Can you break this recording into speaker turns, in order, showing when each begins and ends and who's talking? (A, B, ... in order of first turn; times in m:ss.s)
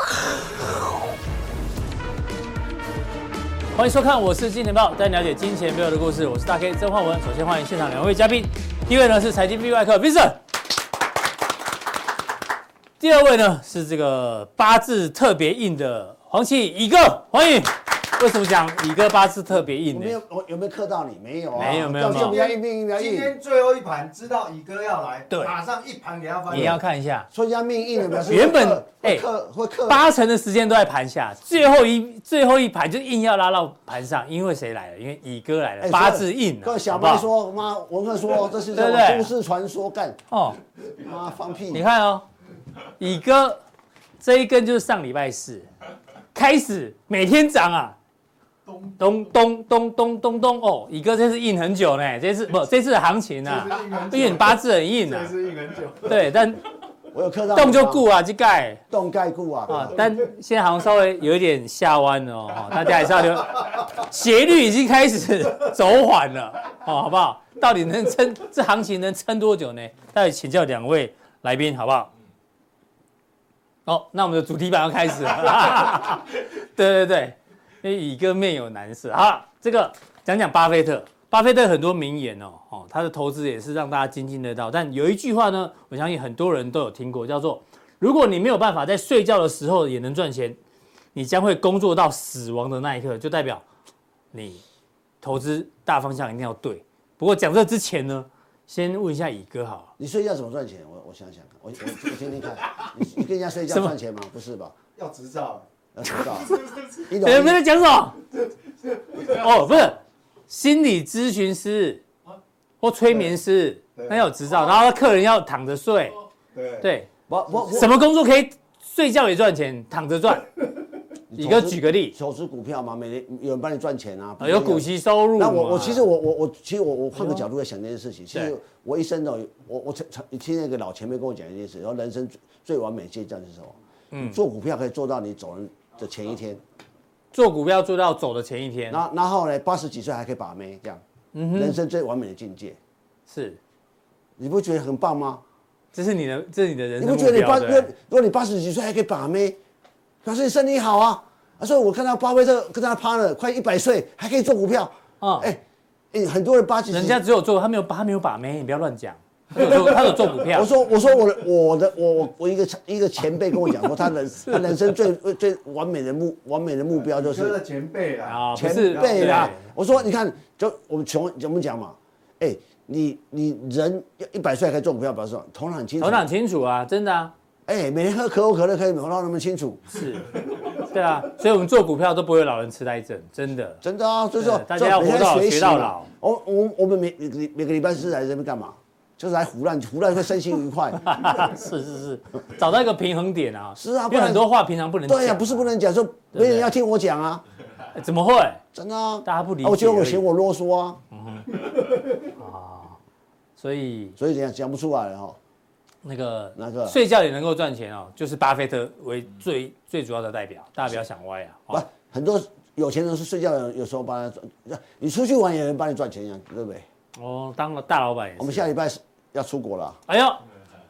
0:03.7-0:10.4 A
0:13.0-0:20.2 A
0:19.9-0:23.3 B
0:21.6-0:22.4 A
0:21.6-0:26.8 C
0:26.5-0:27.3 A
0:27.3-0:30.0 B
0:28.3-0:29.2 A
0:29.9-0:37.3 A
0:35.8-0:40.2 B
0:38.7-0:39.3 A
0:40.3-0:40.6 A
0:41.0-0:41.8 B
0:41.7-0:42.2 A
0:43.0-0:43.6 A
0:44.2-0:45.7 A
0:46.3-0:48.0 A
0:48.8-0:55.3 A
0:53.4-0:56.3 C
0:56.0-0:56.6 A
0:57.1-0:58.1 B
0:57.5-0:58.8 A
0:58.9-1:00.0 B
0:59.7-1:12.1 A
1:13.9-1:30.6 A
1:31.2-1:33.6 A
1:34.3-1:34.6 A
1:35.2-1:39.9 A
1:40.0-1:44.8 B
1:43.7-1:44.0 A
1:45.0-1:45.7 C
1:46.0-1:47.6 B
1:46.2-1:48.2 A
1:49.2-1:52.0 A
1:52.8-1:56.2 A
1:54.0-1:54.5 C
1:56.5-1:56.9 C
1:56.8-1:57.1 A
1:57.3-1:57.9 B
1:57.7-2:00.5 A
2:01.3-2:16.6 B
2:01.4-2:02.1 A
2:04.4-2:06.1 A
2:07.2-2:07.4 A
2:14.1-2:14.4 A
2:17.3-2:19.0 A
2:18.9-2:21.0 B
2:21.3-2:21.8 A
2:21.5-2:22.8 B
2:23.3-2:23.6 A
2:24.4-2:25.4 B
2:25.9-2:27.9 A
2:27.0-2:29.6 B
2:30.2-2:35.6 B
2:35.2-2:35.5 A
2:36.1-2:37.2 B
2:36.9-2:40.7 A
2:39.6-2:47.6 B
2:44.4-2:44.8 A
2:47.1-2:49.5 C
2:48.3-2:49.6 A
2:48.6-2:56.3 B
2:56.0-2:57.3 A
2:57.7-3:00.0 B
2:59.9-3:03.8 A
3:03.8-3:11.2 B
3:04.4-3:06.1 A
3:11.0-3:15.7 A
3:13.8-3:14.5 B
3:15.1-3:17.4 B
3:16.3-3:16.7 A
3:18.0-3:18.6 A
3:18.7-3:21.0 B
3:19.2-3:20.2 A
3:21.1-3:21.6 A
3:22.1-3:23.0 A
3:23.6-3:24.2 A
3:24.2-3:25.4 B
3:26.0-3:31.9 A
3:26.6-3:27.0 B
3:31.7-3:36.8 B
3:37.2-3:38.7 A
3:38.4-3:40.0 B
3:40.1-3:40.4 A